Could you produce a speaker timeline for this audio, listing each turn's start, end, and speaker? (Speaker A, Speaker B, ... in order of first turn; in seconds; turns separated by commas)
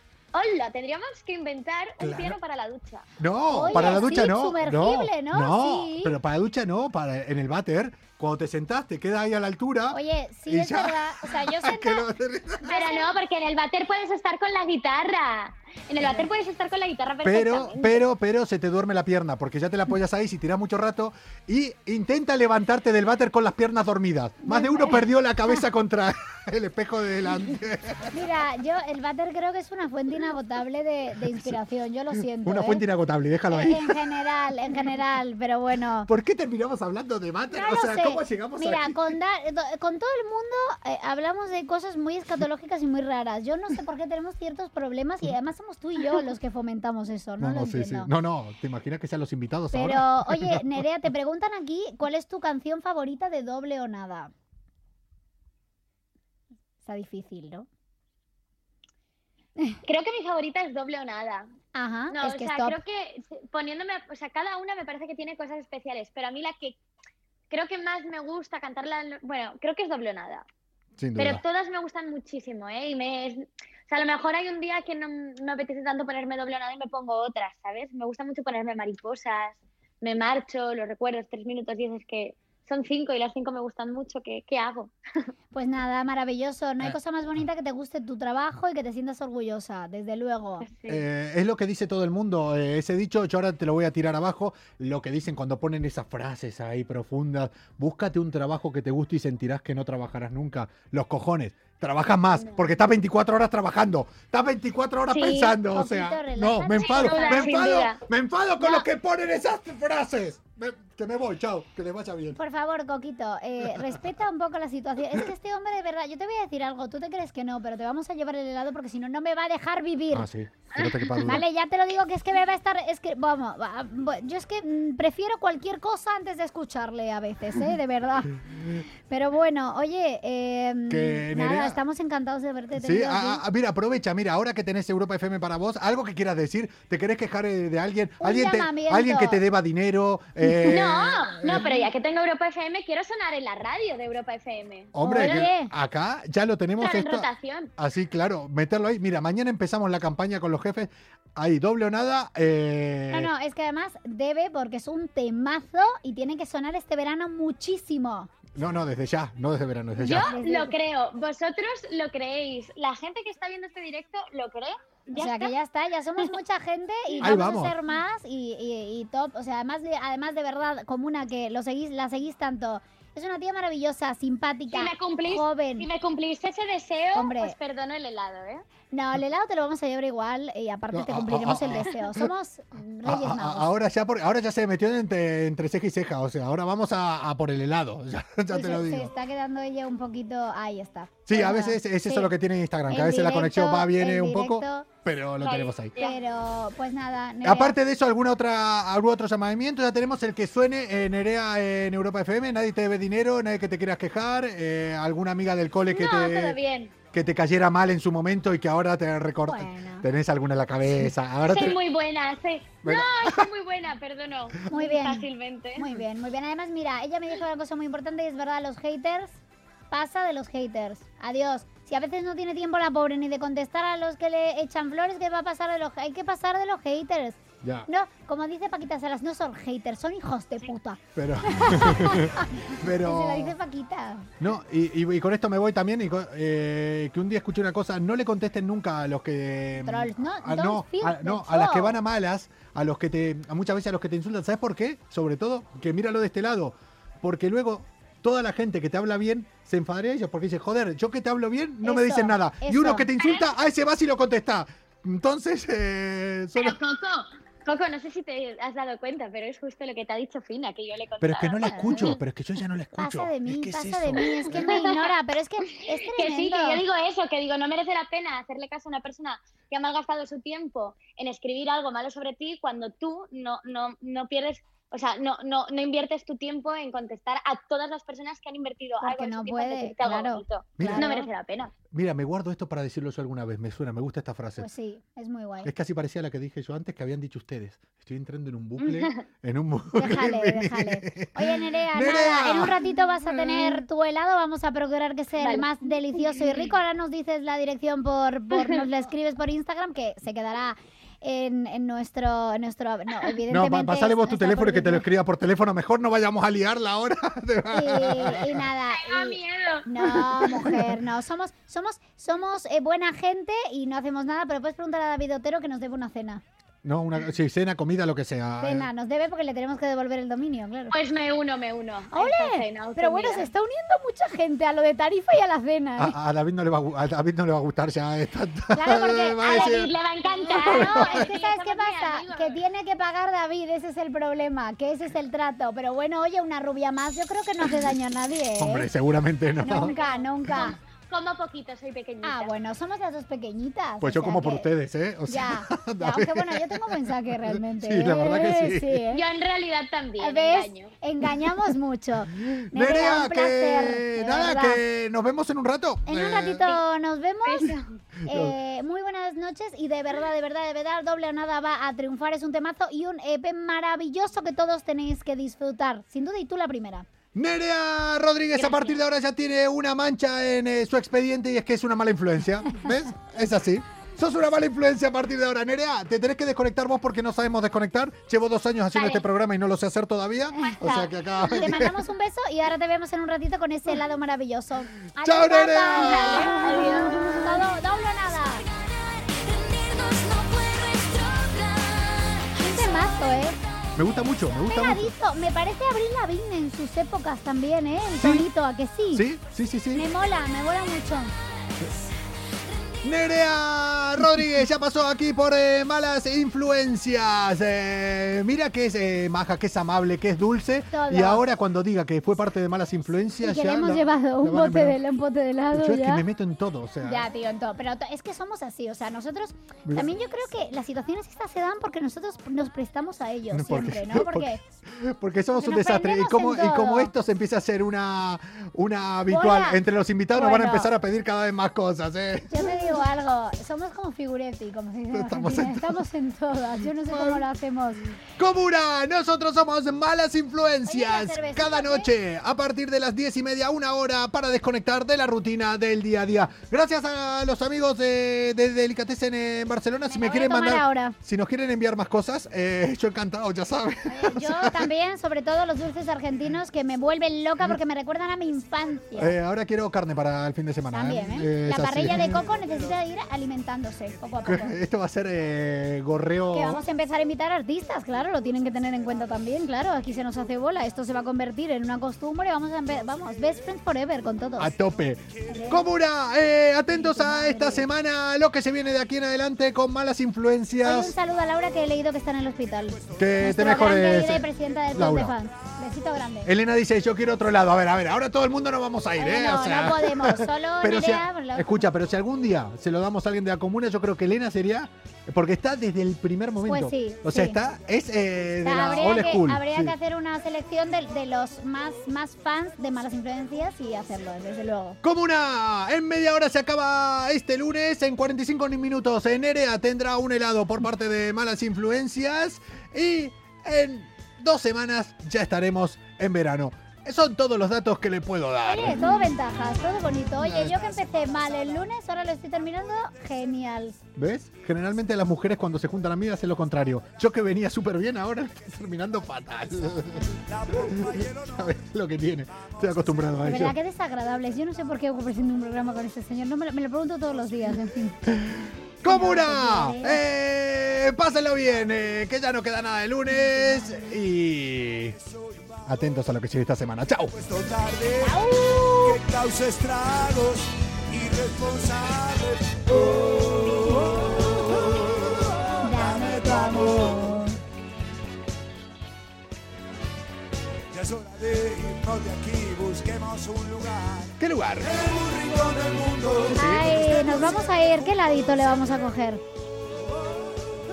Speaker A: 0.3-3.1, Speaker B: 2.0-2.4, Speaker B: 3.2-12.8, Speaker C: 3.5-6.2, Speaker A: 3.6-4.3, Speaker C: 9.9-12.1, Speaker C: 12.6-13.1, Speaker A: 12.6-18.0, Speaker B: 17.2-28.1, Speaker C: 24.4-25.0, Speaker C: 28.1-32.8, Speaker B: 31.3-31.5, Speaker B: 32.1-34.0, Speaker C: 33.5-36.1, Speaker B: 36.0-39.1, Speaker C: 37.5-48.1, Speaker B: 47.4-50.8, Speaker C: 49.7-54.3, Speaker C: 56.8-57.7, Speaker A: 59.8-61.5, Speaker C: 61.7-62.8, Speaker A: 62.1-66.8, Speaker A: 67.5-70.4, Speaker B: 71.0-71.4, Speaker A: 71.2-84.9, Speaker C: 85.5-90.7, Speaker A: 90.6-91.0, Speaker B: 90.9-112.4, Speaker A: 105.1-105.6, Speaker C: 105.7-107.7, Speaker A: 106.7-108.0, Speaker C: 112.3-120.3, Speaker B: 120.1-121.4, Speaker A: 120.8-121.4, Speaker C: 121.2-128.4, Speaker C: 129.1-133.4, Speaker B: 130.9-131.8, Speaker B: 132.7-141.8, Speaker C: 138.2-139.4, Speaker C: 140.4-140.8, Speaker A: 140.7-145.5, Speaker B: 144.9-153.3, Speaker C: 145.0-145.7, Speaker A: 146.8-147.7, Speaker C: 153.1-158.3, Speaker B: 158.5-160.3, Speaker A: 160.0-165.5, Speaker C: 160.0-160.7, Speaker C: 165.1-175.9, Speaker B: 167.2-167.8, Speaker A: 174.7-178.6, Speaker C: 177.1-177.5, Speaker C: 178.9-183.7, Speaker B: 180.9-182.3, Speaker B: 183.0-189.1, Speaker C: 188.5-192.3, Speaker B: 191.2-195.9, Speaker C: 192.9-194.9, Speaker A: 195.4-196.2, Speaker C: 196.0-197.8, Speaker B: 197.4-206.6, Speaker A: 205.9-206.9, Speaker B: 207.1-211.8, Speaker C: 209.5-210.1, Speaker A: 211.4-215.9, Speaker B: 212.8-213.3, Speaker C: 214.7-219.4, Speaker C: 219.9-234.3, Speaker B: 227.6-227.9, Speaker B: 231.2-233.5, Speaker B: 234.4-256.8, Speaker C: 239.8-242.0, Speaker C: 251.8-253.1, Speaker A: 253.2-253.5, Speaker A: 256.6-262.2, Speaker B: 261.2-264.8, Speaker C: 261.7-262.1, Speaker C: 263.0-266.8, Speaker A: 264.2-265.1, Speaker A: 265.7-281.7, Speaker C: 279.0-281.3, Speaker B: 280.8-281.1, Speaker B: 281.9-284.7, Speaker C: 284.6-285.7, Speaker B: 285.6-292.8, Speaker A: 288.8-289.2, Speaker C: 290.0-305.0, Speaker A: 295.4-295.7, Speaker A: 298.5-298.8, Speaker B: 303.5-308.6, Speaker C: 307.7-316.4, Speaker A: 308.9-309.9, Speaker B: 310.1-311.0, Speaker B: 316.8-318.9, Speaker C: 318.6-320.9, Speaker A: 320.9-323.5, Speaker C: 322.1-326.1, Speaker B: 326.0-329.9, Speaker C: 328.7-338.9, Speaker A: 329.4-332.6, Speaker B: 330.5-331.1, Speaker B: 338.6-339.9, Speaker C: 339.6-340.8, Speaker A: 339.6-342.5, Speaker C: 342.2-344.6, Speaker B: 344.0-349.0, Speaker C: 345.3-349.2, Speaker A: 349.1-350.9, Speaker C: 350.2-354.8, Speaker B: 352.5-356.6, Speaker C: 356.1-357.7, Speaker A: 357.4-357.9, Speaker B: 358.2-358.5, Speaker C: 358.3-367.0, Speaker B: 367.3-382.0, Speaker A: 368.6-368.9, Speaker A: 378.9-379.2, Speaker A: 380.6-381.6, Speaker C: 381.5-388.6, Speaker B: 385.2-386.6, Speaker A: 385.9-387.6, Speaker A: 389.6-391.5, Speaker C: 392.5-393.6, Speaker B: 393.9-395.1, Speaker C: 394.7-399.2, Speaker B: 398.2-398.5, Speaker B: 399.1-400.1, Speaker C: 399.9-401.3, Speaker B: 403.0-415.0, Speaker C: 410.9-411.4, Speaker C: 413.4-416.2, Speaker B: 415.7-417.3, Speaker C: 417.0-424.6, Speaker B: 419.9-420.1, Speaker B: 423.5-432.8, Speaker C: 425.6-427.1, Speaker C: 429.3-429.8, Speaker C: 430.3-430.9, Speaker C: 432.5-438.0, Speaker B: 435.1-436.0, Speaker B: 437.1-437.4, Speaker B: 438.4-454.9, Speaker C: 440.9-442.1, Speaker C: 450.1-451.1, Speaker C: 454.1-459.3, Speaker B: 459.1-462.5, Speaker C: 460.9-464.7, Speaker D: 462.6-462.9, Speaker B: 464.4-466.8, Speaker C: 466.5-474.7, Speaker B: 474.6-481.1, Speaker C: 475.5-475.9, Speaker C: 476.9-477.9, Speaker C: 480.8-486.5, Speaker B: 483.1-485.3, Speaker B: 486.4-499.9, Speaker C: 489.2-491.9, Speaker C: 496.7-497.6, Speaker C: 498.6-505.0, Speaker B: 505.0-519.2, Speaker C: 518.6-524.0, Speaker B: 520.4-521.1, Speaker B: 524.1-533.8, Speaker D: 530.1-531.7, Speaker D: 532.5-533.5, Speaker C: 533.4-538.2, Speaker B: 538.2-545.1, Speaker C: 539.1-540.2, Speaker D: 545.1-545.7, Speaker B: 545.9-547.4, Speaker D: 547.3-557.4, Speaker C: 548.2-549.2, Speaker C: 555.8-557.6, Speaker D: 560.9-567.5, Speaker B: 564.4-564.9, Speaker B: 566.5-567.6, Speaker C: 566.5-569.4